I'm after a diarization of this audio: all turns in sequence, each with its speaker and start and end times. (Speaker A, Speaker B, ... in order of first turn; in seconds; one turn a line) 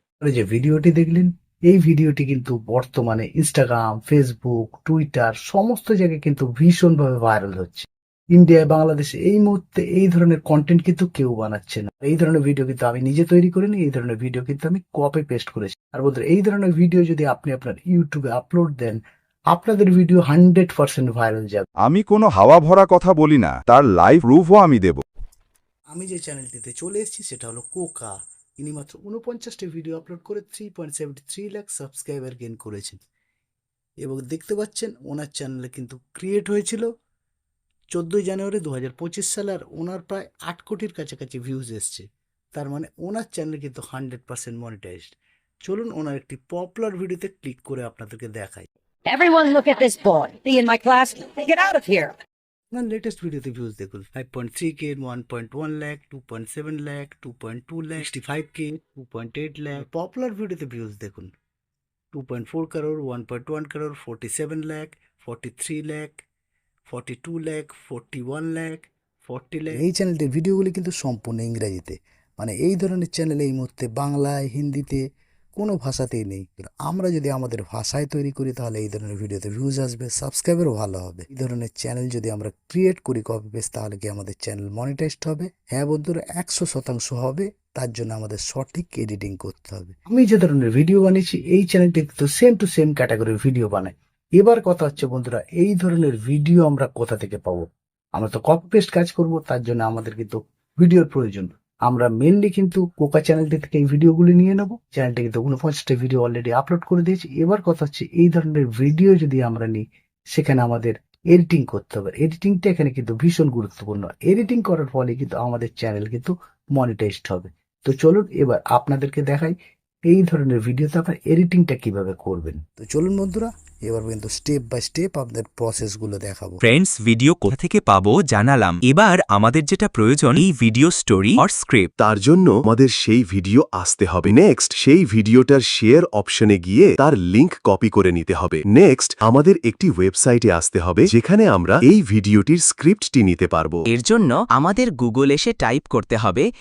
Speaker A: 0.2-19.0
Speaker A: 19.5-21.7
Speaker B: 21.8-25.0
Speaker A: 25.9-33.0
Speaker A: 34.0-36.9
Speaker A: 37.9-48.7
Speaker C: 49.1-52.1
Speaker A: 52.7-61.3
Speaker A: 62.1-66.2
Speaker A: 66.9-75.0
Speaker A: 75.5-119.5
Speaker A: 120.1-126.6
Speaker D: 126.7-130.4
Speaker D: 131.4-131.9
Speaker E: 132.0-143.8